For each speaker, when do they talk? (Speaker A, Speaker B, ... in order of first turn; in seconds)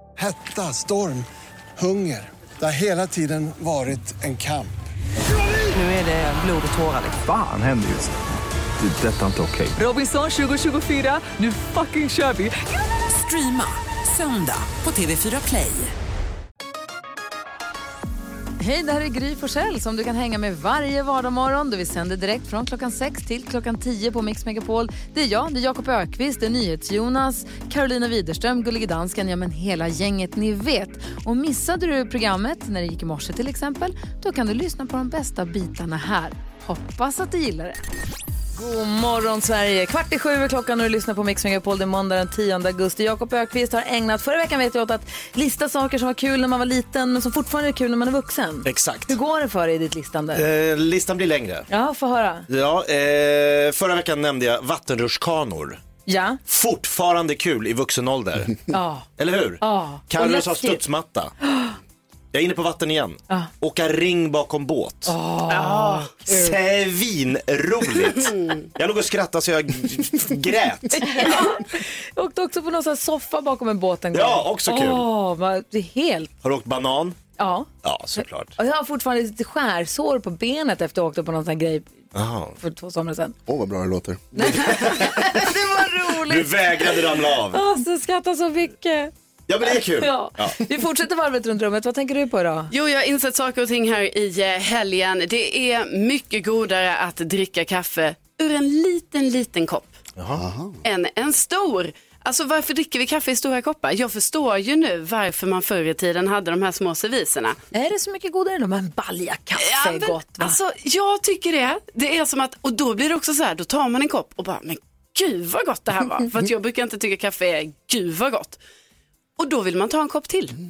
Speaker A: 0.2-4.8
Speaker B: 5.7-7.2, 13.0-15.9
Speaker C: 7.2-8.2, 8.8-9.8
Speaker D: 9.8-12.6, 18.6-37.8, 38.5-50.4, 51.7-52.5, 56.1-56.4, 58.7-60.8, 61.4-61.8, 65.1-66.6, 71.0-76.3, 77.4-82.0, 82.6-83.4, 84.3-89.1, 89.7-92.7, 107.7-110.6
Speaker E: 48.6-49.2, 50.3-51.7, 52.5-55.8, 56.5-61.4, 62.3-71.3, 74.1-75.1, 76.4-77.2, 77.8-78.5, 82.1-82.6, 84.6-85.5, 86.2-87.6, 89.5-90.6, 100.2-100.4
Speaker F: 65.7-66.1, 92.7-99.9, 100.8-107.6, 109.6-118.6, 119.4-120.6
Speaker G: 83.5-84.9, 100.3-100.8